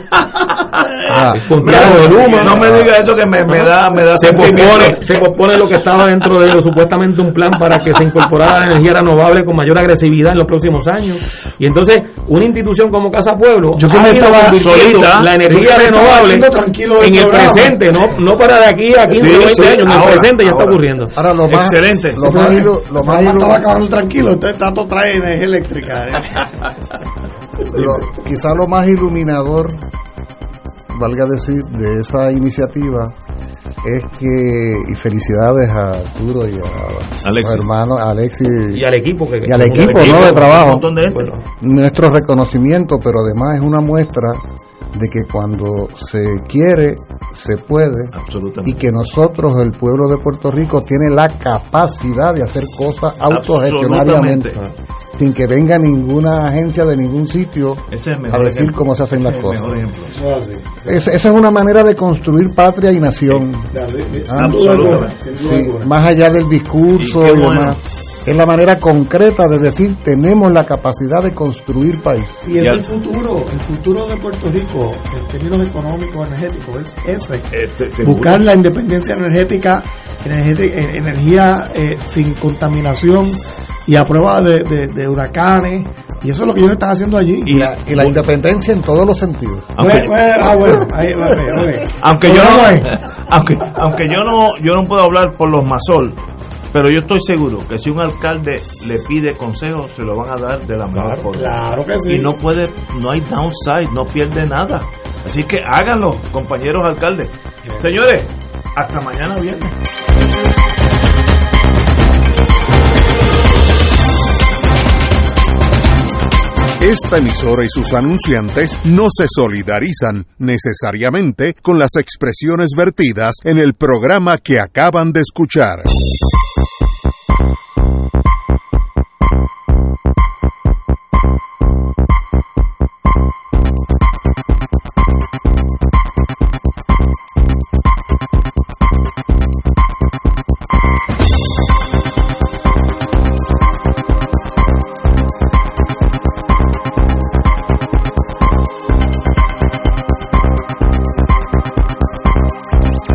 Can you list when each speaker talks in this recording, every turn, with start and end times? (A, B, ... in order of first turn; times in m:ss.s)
0:01.0-0:05.1 A
0:01.3-0:02.8 B
0:04.2-0:21.1 B
0:13.8-0:14.6 C
0:14.6-0:15.3 A
0:15.4-0:17.8 C
0:19.1-0:20.8 A
0:21.2-0:23.6 D
0:21.5-0:22.2 A
0:22.2-0:26.4 C
0:27.7-0:29.8 D
0:30.9-0:33.2 D
0:33.8-0:38.9 D
0:37.2-0:37.6 A
0:38.7-0:41.4 B
0:39.4-0:40.9 D
0:39.8-0:41.3 A
0:41.6-0:44.4 D
0:44.9-0:54.5 D
0:48.1-0:48.9 A
0:53.3-0:54.6 A
0:55.2-0:59.8 D
0:57.9-1:00.1 A
1:00.1-1:00.9 C
1:00.8-1:03.7 D
1:03.7-1:05.9 C
1:04.3-1:12.4 D
1:04.3-1:05.2 A
1:07.0-1:07.8 A
1:12.4-1:17.5 C
1:12.6-1:12.9 A
1:17.5-1:18.5 A
1:18.0-1:27.5 C
1:27.5-1:28.3 A
1:27.5-1:29.8 D
1:29.8-1:30.8 A
1:29.8-1:32.9 C
1:32.0-1:36.2 A
1:36.7-1:49.7 A
1:41.0-1:42.3 C
1:56.8-2:05.9 E